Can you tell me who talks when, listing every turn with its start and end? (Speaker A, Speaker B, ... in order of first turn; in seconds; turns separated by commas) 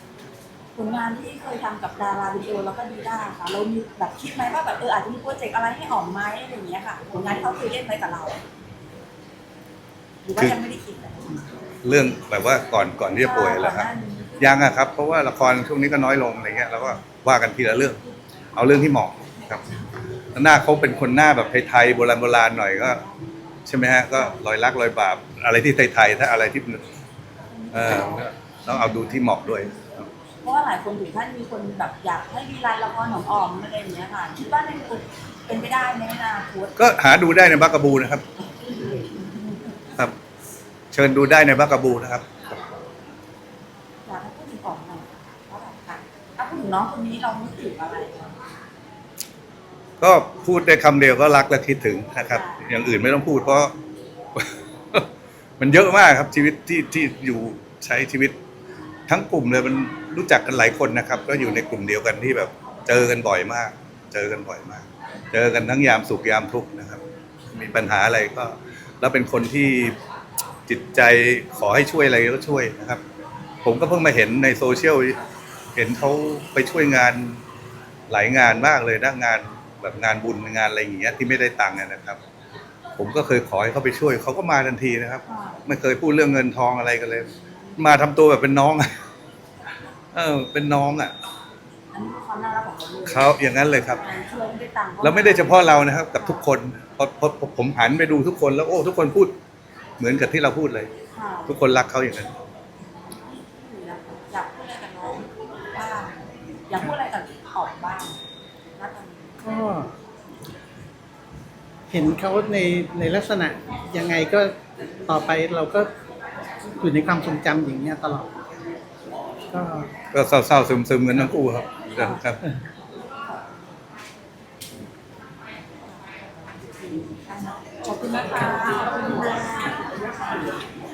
Speaker A: 0.8-8.4, Speaker A: 10.2-11.4, Speaker B: 11.8-13.9, Speaker A: 13.2-14.8, Speaker B: 14.4-18.0, Speaker B: 18.6-19.6, Speaker B: 20.4-23.0, Speaker A: 22.9-23.1, Speaker B: 23.7-26.8, Speaker A: 27.5-29.1, Speaker B: 27.7-29.9, Speaker A: 30.4-36.8, Speaker B: 36.8-38.2, Speaker A: 38.9-39.7, Speaker B: 40.9-42.3, Speaker A: 44.1-48.4, Speaker B: 50.0-53.7, Speaker A: 52.3-52.6, Speaker B: 54.4-55.1, Speaker B: 55.6-58.4, Speaker B: 59.1-67.0, Speaker B: 67.5-70.0, Speaker B: 70.7-73.0, Speaker B: 73.6-75.2, Speaker B: 75.8-77.4, Speaker B: 78.1-82.2, Speaker B: 83.0-88.9, Speaker A: 85.3-85.6, Speaker A: 87.3-87.8, Speaker B: 90.1-91.1, Speaker A: 91.9-96.4, Speaker B: 93.1-94.0, Speaker B: 95.0-99.3, Speaker B: 100.0-100.9, Speaker A: 101.1-101.5, Speaker B: 101.5-102.3, Speaker A: 103.1-108.2, Speaker A: 108.8-109.4, Speaker C: 109.4-109.9, Speaker C: 111.9-114.5, Speaker C: 115.1-115.9, Speaker C: 116.8-118.4, Speaker C: 119.5-119.9, Speaker B: 120.1-122.4, Speaker A: 121.9-122.2, Speaker A: 126.8-129.8